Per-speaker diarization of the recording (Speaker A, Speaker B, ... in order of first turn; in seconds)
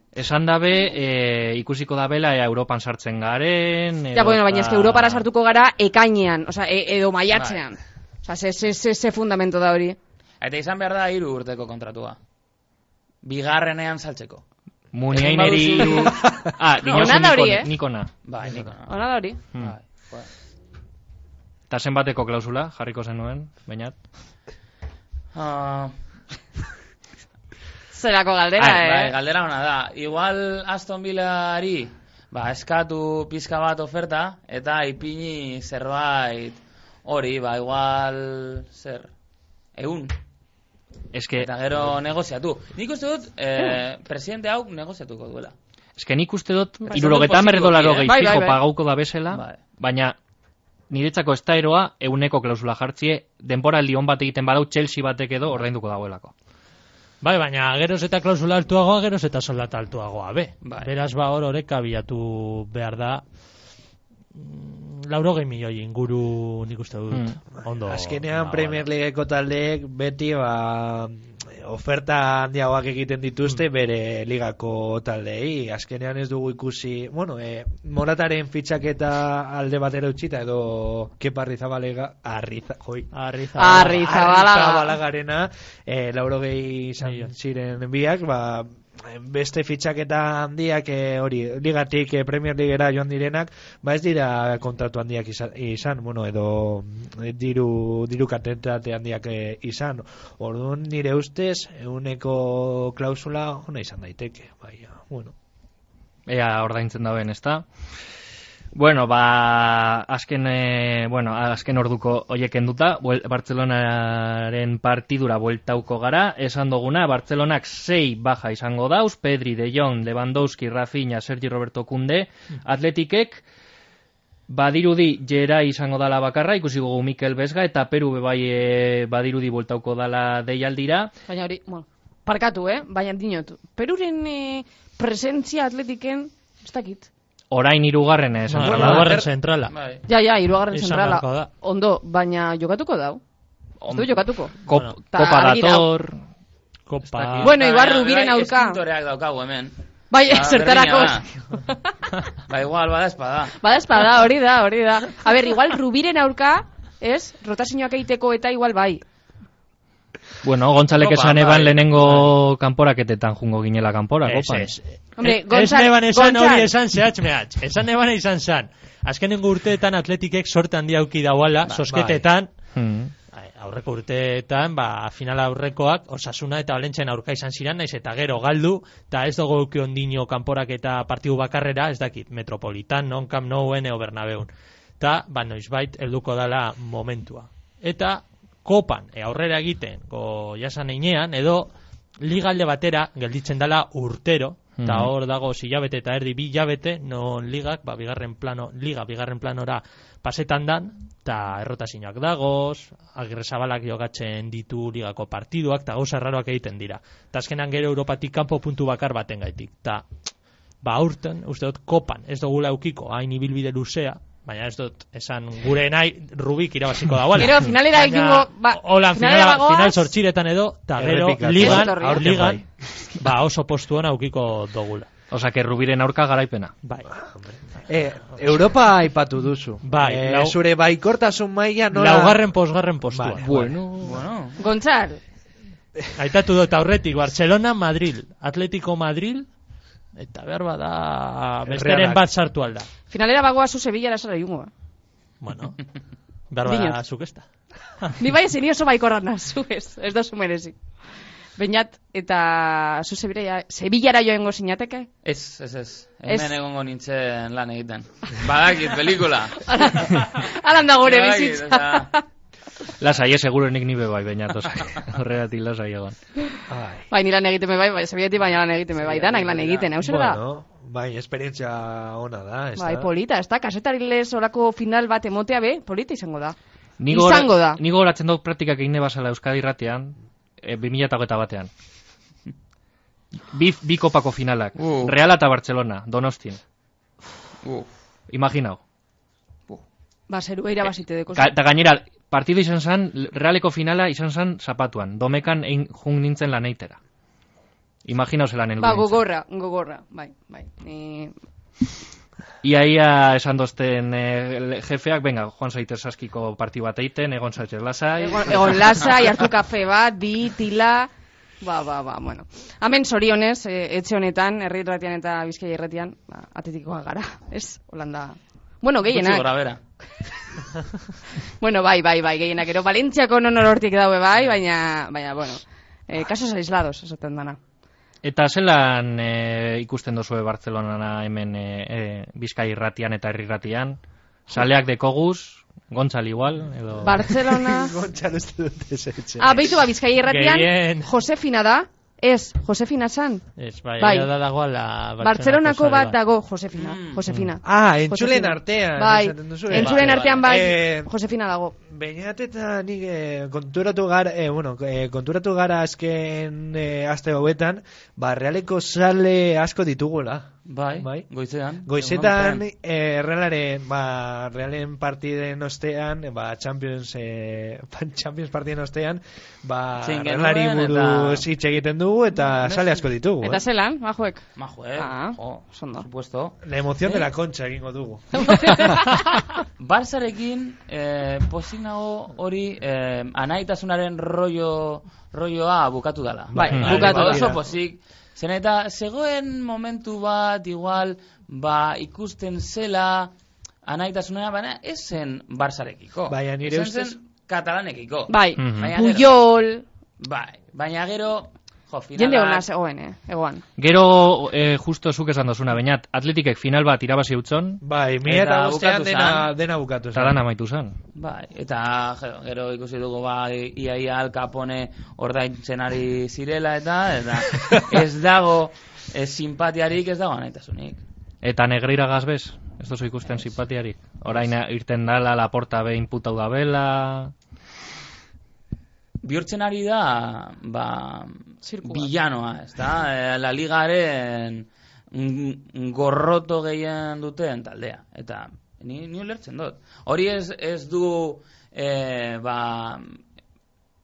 Speaker A: 0.1-5.2, 14.9-18.1, 21.7-23.9, 41.1-41.5, 46.0-50.1, 50.9-56.3, 67.1-67.4, 106.3-107.6, 108.7-123.4, 124.5-131.1, 137.5-139.2, 143.8-146.2, 160.4-164.7, 172.7-173.1, 194.8-195.1, 225.3-226.7, 233.4-234.2, 263.0-266.1, 277.0-281.7, 283.5-286.6, 288.3-288.8, 291.3-297.0, 298.0-299.2, 302.6-309.0, 328.2-337.3, 398.6-398.9, 403.8-407.8, 410.1-410.9, 421.4-427.3
Speaker B: 4.1-10.0, 15.6-16.1, 16.8-17.7, 18.9-19.4, 27.9-29.1, 46.9-47.2, 48.0-48.6, 83.5-84.9, 131.3-137.1, 140.1-143.2, 143.9-144.6, 145.1-145.9, 147.4-148.8, 150.1-151.8, 153.6-159.0, 165.2-166.7, 217.3-220.1, 221.6-222.3, 234.6-235.2, 243.1-244.7, 246.6-247.0, 248.2-250.8, 251.6-255.1, 256.3-256.5, 259.6-262.2, 267.1-270.4, 272.8-276.6, 277.1-277.8, 290.3-291.6, 298.8-301.3, 308.2-311.1, 311.6-319.5, 321.6-327.6, 337.0-337.9, 339.4-343.5, 344.0-344.3, 345.2-351.8, 373.4-374.4, 374.9-376.1, 378.4-379.4, 386.6-387.5, 398.3-399.8, 402.1-403.6, 431.6-432.1
Speaker C: 7.3-7.6, 10.4-12.2, 13.2-14.4, 15.1-16.1, 18.2-20.3, 25.3-25.9, 28.6-39.1, 39.8-40.1, 41.4-45.5, 46.9-48.2, 49.3-49.6, 60.6-60.9, 139.7-140.0, 147.1-149.7, 150.3-151.3, 152.5-153.6, 160.9-162.3, 171.7-172.0, 234.0-234.6, 255.2-260.1, 261.0-262.1, 269.0-269.9, 284.8-285.1, 287.6-287.9, 319.1-319.8, 346.7-347.2, 349.7-350.6, 360.7-362.6, 370.0-371.5, 372.6-373.0, 374.6-377.3, 379.8-393.3, 393.9-399.3, 400.2-402.7, 408.2-409.5, 411.1-421.0, 429.2-443.2
Speaker D: 57.2-63.2, 64.3-68.8, 83.1-84.1, 87.0-87.3, 138.5-139.7, 140.7-141.5, 144.7-144.9, 146.9-147.6, 164.2-172.5, 173.3-184.5, 185.0-191.7, 192.2-210.0, 210.8-225.1, 226.8-227.1, 229.8-230.6, 231.9-233.5, 236.1-239.5, 240.1-242.9, 245.4-245.8, 246.5-247.4, 340.2-341.1, 343.6-346.2
Speaker E: 67.8-83.1, 83.7-105.3, 138.6-139.2, 221.0-222.7, 227.1-232.4, 233.1-233.8, 241.7-242.2, 266.7-267.1, 270.0-273.1, 337.5-339.7, 347.6-351.1, 351.9-361.2, 361.9-373.6, 376.6-378.9, 386.5-387.6, 396.3-397.2, 407.8-410.4